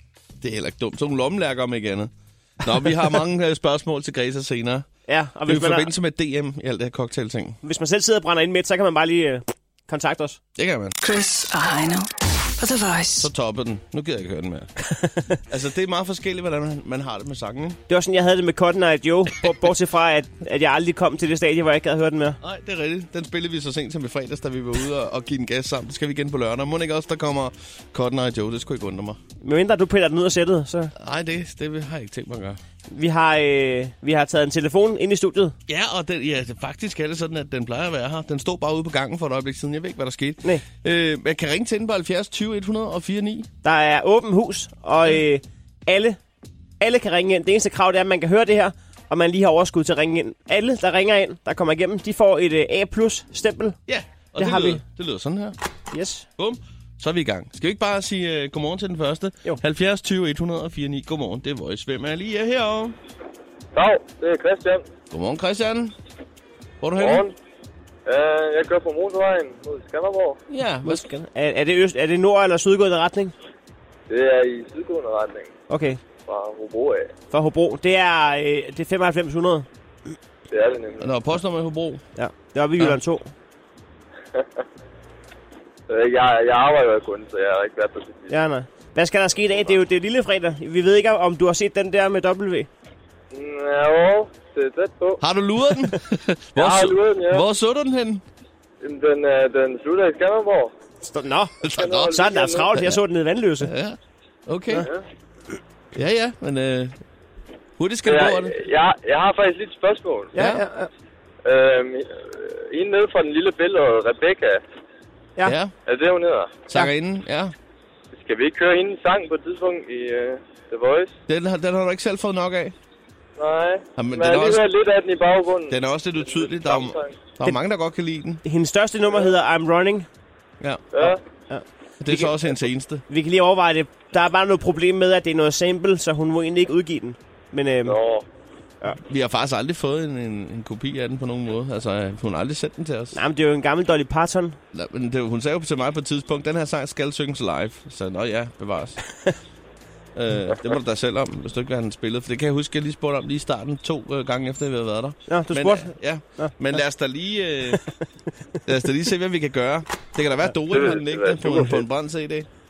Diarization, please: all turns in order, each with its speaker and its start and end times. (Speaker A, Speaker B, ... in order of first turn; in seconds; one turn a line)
Speaker A: 0.4-4.9
Speaker B: 5.1-5.9
Speaker A: 5.5-7.6
Speaker B: 7.6-10.4
Speaker A: 10.6-11.0
Speaker C: 11.0-13.3
Speaker A: 13.2-14.7
Speaker B: 14.9-15.4
Speaker A: 15.5-17.8
Speaker B: 17.9-22.4
Speaker A: 22.4-29.2
Speaker B: 29.4-30.9
Speaker A: 30.9-32.6
Speaker B: 32.9-35.5
Speaker A: 35.7-43.5
Speaker B: 43.6-46.2
Speaker B: 46.8-53.8
Speaker A: 53.9-55.6
Speaker B: 54.4-54.8
Speaker B: 55.9-56.2
Speaker A: 56.4-63.0
Speaker D: 63.7-64.8
Speaker A: 65.1-65.9
Speaker A: 66.8-67.2
Speaker D: 67.0-67.3
Speaker D: 68.0-70.4
Speaker A: 70.5-71.1
Speaker B: 70.8-73.3
Speaker D: 74.1-75.5
Speaker B: 75.7-76.0
Speaker D: 76.2-77.1
Speaker B: 77.3-79.7
Speaker D: 80.5-81.1
Speaker A: 81.0-82.0
Speaker B: 82.2-83.3
Speaker D: 85.9-88.3
Speaker B: 88.3-92.7
Speaker D: 93.3-95.2
Speaker A: 95.2-98.2
Speaker D: 96.6-97.4
Speaker D: 98.8-100.7
Speaker B: 101.0-101.5
Speaker A: 101.6-102.2
Speaker D: 101.8-102.8
Speaker B: 102.1-103.7
Speaker A: 103.6-104.9
Speaker A: 105.9-107.0
Speaker A: 107.8-108.6
Speaker D: 108.0-110.3
Speaker B: 110.3-110.9
Speaker A: 110.3-110.6
Speaker D: 111.4-114.6
Speaker A: 115.4-115.7
Speaker D: 115.8-116.6
Speaker A: 116.7-117.5
Speaker D: 118.1-121.1
Speaker A: 121.3-122.7
Speaker D: 123.4-127.1
Speaker A: 124.0-124.6
Speaker A: 125.7-128.4
Speaker B: 128.4-130.1
Speaker A: 130.6-131.1
Speaker D: 130.9-131.2
Speaker B: 131.5-132.5
Speaker A: 132.0-133.0
Speaker B: 133.1-138.0
Speaker D: 137.8-138.2
Speaker A: 139.0-143.2
Speaker B: 143.1-144.6
Speaker A: 144.7-149.0
Speaker A: 150.1-157.8
Speaker B: 155.3-156.5
Speaker A: 158.6-162.5
Speaker D: 160.7-161.8